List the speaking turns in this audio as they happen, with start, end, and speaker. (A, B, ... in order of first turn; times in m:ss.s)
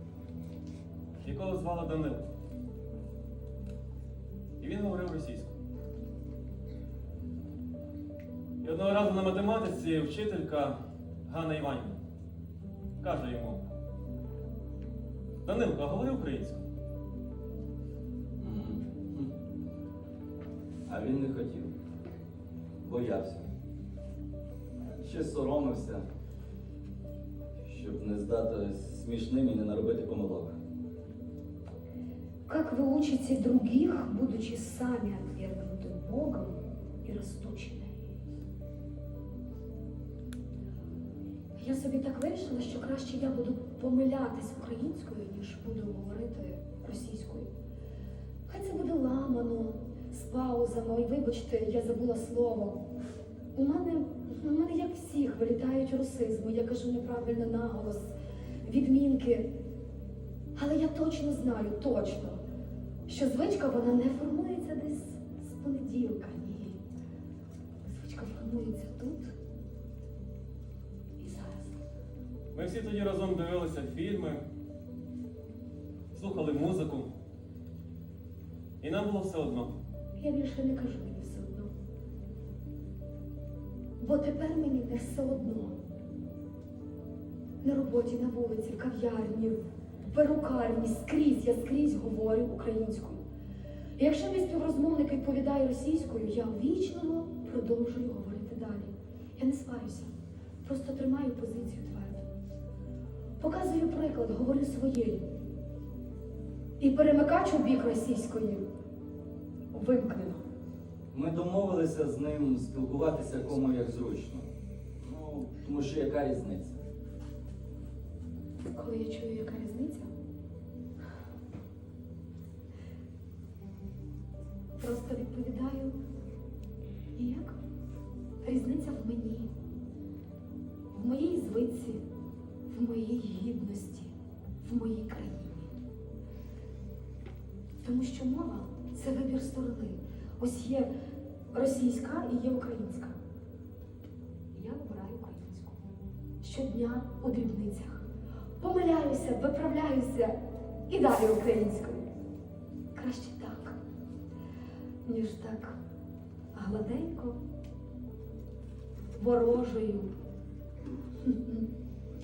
0:01.2-0:02.2 A
0:04.6-0:05.5 A
0:08.6-0:12.0 A
0:13.0-0:13.6 A
0:15.4-0:16.6 A
0:18.4-0:19.3 B
0:20.9-0:21.7 B
0:22.8-0:23.5 B
0:24.9-0:26.0 B
0:27.6-0:30.6 B
0:32.4-0:38.0 C
0:41.6-0:47.5 C
0:48.5-0:52.8 C
0:53.5-0:59.5 C
1:00.6-1:02.4 C
1:03.1-1:06.8 C
1:07.8-1:09.3 C
1:11.2-1:11.8 C
1:12.5-1:14.4 A
1:16.1-1:17.1 A
1:18.8-1:19.7 A
1:20.2-1:21.7 C
1:24.0-1:25.8 C
1:27.6-1:29.6 C
1:30.1-1:33.2 C
1:34.0-1:40.1 C
1:40.6-1:42.3 C
1:43.4-1:45.2 C
1:46.8-1:48.6 C
1:49.7-1:50.4 C
1:51.1-1:54.4 B
1:55.0-1:56.8 B
1:58.7-2:00.1 C
2:04.8-2:06.0 C
2:07.1-2:07.6 C
2:08.4-2:09.5 C
2:10.9-2:12.0 C
2:12.7-2:15.7 C
2:17.8-2:20.9 C
2:21.5-2:23.2 C
2:24.5-2:25.8 C
2:26.4-2:28.0 C
2:28.6-2:30.4 C
2:30.9-2:32.1 C
2:32.9-2:33.8 C
2:35.0-2:35.8 C
2:36.5-2:37.4 C
2:39.2-2:40.1 C
2:41.2-2:41.7 C